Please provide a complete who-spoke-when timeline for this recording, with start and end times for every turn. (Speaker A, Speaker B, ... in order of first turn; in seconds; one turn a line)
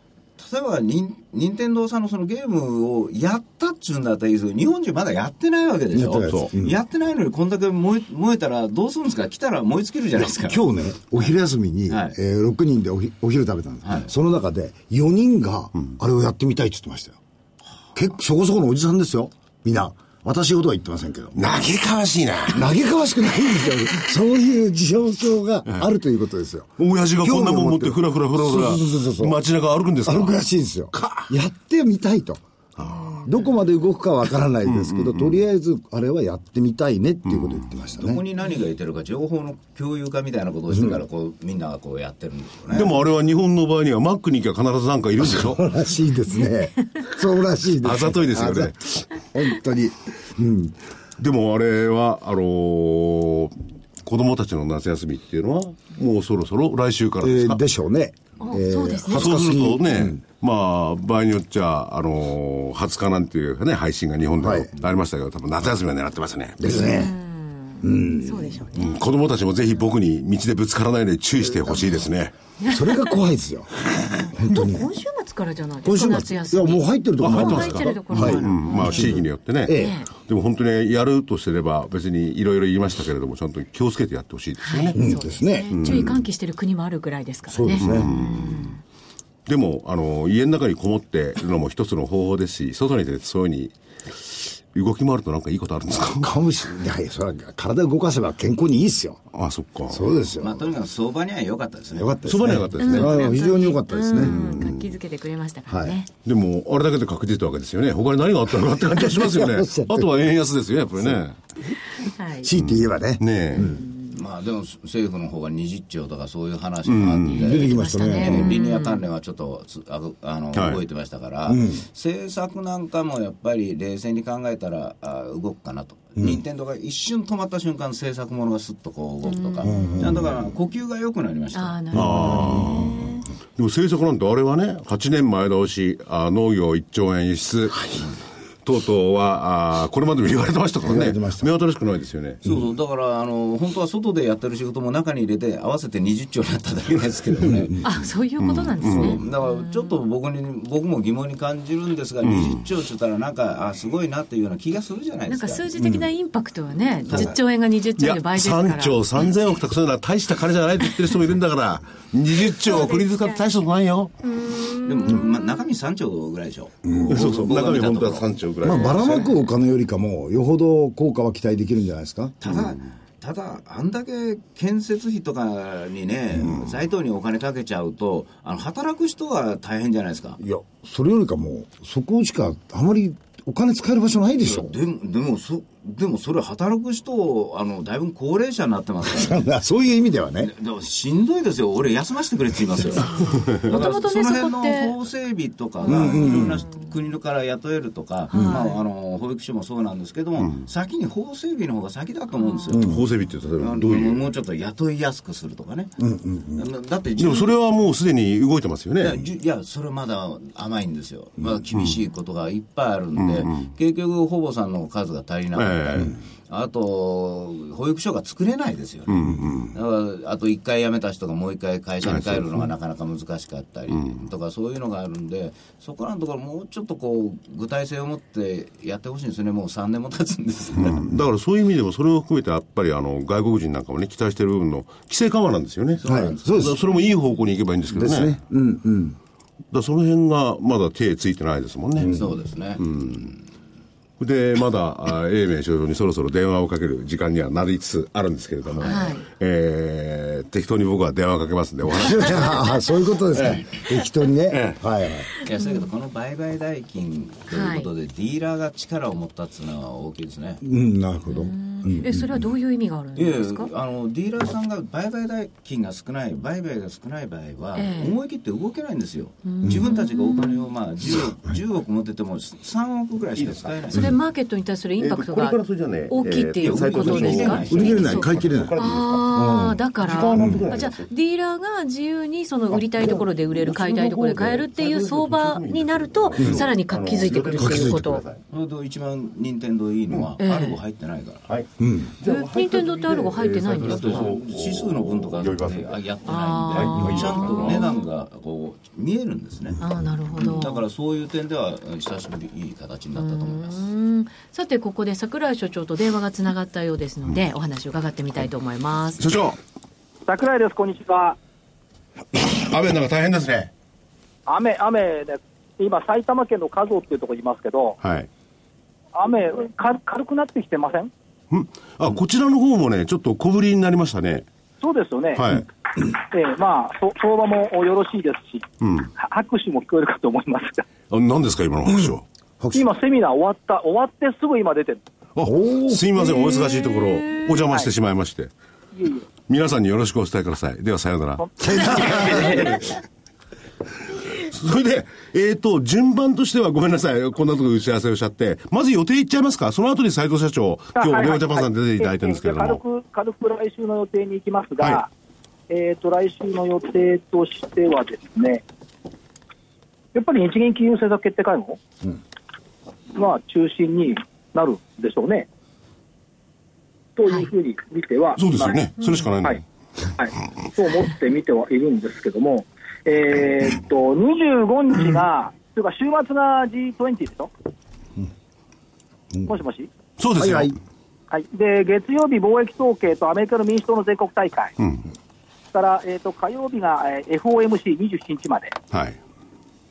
Speaker A: 0.4-11.3
Speaker B: 5.9-6.8
Speaker C: 6.2-6.5
Speaker B: 10.2-17.2
Speaker A: 11.9-12.2
Speaker A: 13.8-14.1
Speaker B: 17.9-21.4
Speaker C: 21.3-22.7
Speaker B: 22.5-29.4
Speaker C: 26.8-30.4
Speaker B: 30.0-38.2
Speaker C: 30.9-31.3
Speaker C: 34.7-35.4
Speaker C: 37.3-37.6
Speaker A: 38.0-43.0
Speaker B: 40.7-41.0
Speaker C: 42.7-45.6
Speaker B: 45.2-50.7
Speaker C: 47.8-49.0
Speaker C: 51.2-57.6
Speaker B: 57.2-60.2
Speaker D: 58.4-59.5
Speaker C: 59.1-66.6
Speaker B: 64.4-64.7
Speaker B: 66.6-67.1
Speaker D: 66.7-69.0
Speaker B: 67.8-68.7
Speaker C: 68.8-72.3
Speaker D: 72.6-73.2
Speaker B: 72.7-74.9
Speaker D: 74.3-80.1
Speaker B: 75.8-80.0
Speaker C: 77.2-85.0
Speaker D: 84.6-88.8
Speaker B: 84.9-86.1
Speaker C: 85.7-86.2
Speaker B: 87.5-88.1
Speaker C: 87.7-88.8
Speaker C: 89.5-96.3
Speaker B: 96.0-99.2
Speaker C: 99.3-100.1
Speaker B: 99.9-100.7
Speaker A: 100.4-102.2
Speaker B: 102.0-104.5
Speaker C: 102.2-103.3
Speaker D: 102.8-106.1
Speaker C: 104.1-105.0
Speaker B: 105.7-106.0
Speaker C: 106.2-111.4
Speaker B: 108.8-110.3
Speaker D: 112.0-112.5
Speaker B: 112.4-113.8
Speaker C: 112.5-113.7
Speaker D: 113.5-114.2
Speaker A: 114.1-131.9
Speaker C: 116.9-117.5
Speaker B: 117.3-118.5
Speaker D: 117.5-119.0
Speaker C: 120.5-120.8
Speaker B: 121.5-121.8
Speaker D: 129.2-130.2
Speaker B: 129.6-130.4
Speaker D: 131.5-133.2
Speaker B: 131.9-132.9
Speaker C: 131.9-133.0
Speaker C: 133.6-138.0
Speaker C: 138.6-142.4
Speaker B: 140.8-141.5
Speaker A: 142.4-147.8
Speaker D: 147.8-150.0
Speaker C: 148.4-149.2
Speaker A: 148.9-155.7
Speaker C: 152.2-152.6
Speaker D: 155.3-159.0
Speaker A: 157.1-157.3
Speaker C: 158.0-164.1
Speaker D: 162.5-163.4
Speaker D: 164.2-165.6
Speaker A: 164.8-168.3
Speaker B: 166.8-167.4
Speaker C: 167.1-169.3
Speaker B: 168.6-172.3
Speaker A: 172.4-180.4
Speaker C: 172.5-172.7
Speaker B: 180.4-184.7
Speaker A: 184.4-189.4
Speaker B: 189.1-190.5
Speaker A: 190.4-202.9
Speaker D: 193.0-194.9
Speaker C: 193.4-193.7
Speaker D: 195.8-196.9
Speaker B: 195.8-196.6
Speaker D: 198.3-198.8
Speaker D: 202.3-202.8
Speaker B: 202.7-203.0
Speaker C: 202.7-204.2
Speaker A: 203.6-205.9
Speaker B: 206.0-206.6
Speaker A: 206.5-207.5
Speaker C: 207.2-209.2
Speaker A: 209.0-231.1
Speaker C: 213.2-213.7
Speaker C: 215.6-216.1
Speaker C: 219.1-219.7
Speaker C: 222.0-222.6
Speaker C: 223.9-224.2
Speaker C: 230.8-238.4
Speaker A: 236.0-236.7
Speaker B: 236.0-236.8
Speaker B: 237.9-239.2
Speaker C: 239.7-242.1
Speaker B: 242.0-242.2
Speaker A: 242.1-243.4
Speaker C: 242.8-243.2
Speaker C: 244.2-252.6
Speaker D: 248.8-249.3
Speaker B: 251.9-255.3
Speaker C: 253.3-253.8
Speaker C: 254.5-254.8
Speaker A: 255.4-260.6
Speaker D: 255.5-255.9
Speaker D: 257.5-257.9
Speaker B: 260.6-262.4
Speaker D: 261.3-263.7
Speaker A: 263.1-274.1
Speaker D: 267.7-268.2
Speaker D: 269.4-270.7
Speaker B: 269.6-269.9
Speaker C: 273.4-273.7
Speaker D: 273.9-288.2
Speaker C: 275.0-281.1
Speaker A: 276.6-278.4
Speaker B: 277.7-278.8
Speaker B: 279.3-280.7
Speaker C: 282.7-288.4
Speaker B: 286.4-286.7
Speaker B: 287.5-288.2
Speaker A: 288.5-291.4
Speaker D: 290.4-290.8
Speaker C: 291.5-296.1
Speaker B: 291.8-292.1
Speaker D: 292.2-294.4
Speaker A: 293.8-303.8
Speaker D: 296.2-298.1
Speaker C: 296.7-297.9
Speaker D: 299.8-300.8
Speaker D: 303.1-309.3
Speaker C: 309.2-309.6
Speaker E: 310.3-311.4
Speaker C: 312.3-313.7
Speaker E: 314.5-318.0
Speaker C: 318.0-318.3
Speaker E: 319.1-321.1
Speaker C: 321.5-324.4
Speaker E: 324.8-325.5
Speaker C: 325.4-325.6
Speaker E: 326.1-328.6
Speaker C: 328.8-329.1
Speaker E: 329.2-330.9
Speaker C: 331.1-332.2
Speaker E: 332.7-335.0
Speaker C: 335.3-338.5
Speaker B: 335.4-336.1
Speaker D: 336.3-337.4
Speaker E: 338.9-339.3
Speaker C: 339.4-342.9
Speaker E: 341.4-342.8
Speaker B: 341.6-342.6
Speaker C: 344.3-352.8
Speaker E: 350.9-355.1
Speaker E: 355.7-358.6
Speaker E: 360.1-361.8
Speaker E: 363.1-365.5
Speaker E: 367.2-368.8
Speaker C: 368.4-369.6
Speaker E: 370.2-377.5
Speaker E: 379.4-379.9
Speaker C: 380.2-380.8
Speaker B: 380.4-380.8
Speaker E: 381.3-384.7
Speaker C: 384.8-385.0
Speaker E: 385.7-388.7
Speaker C: 388.9-389.2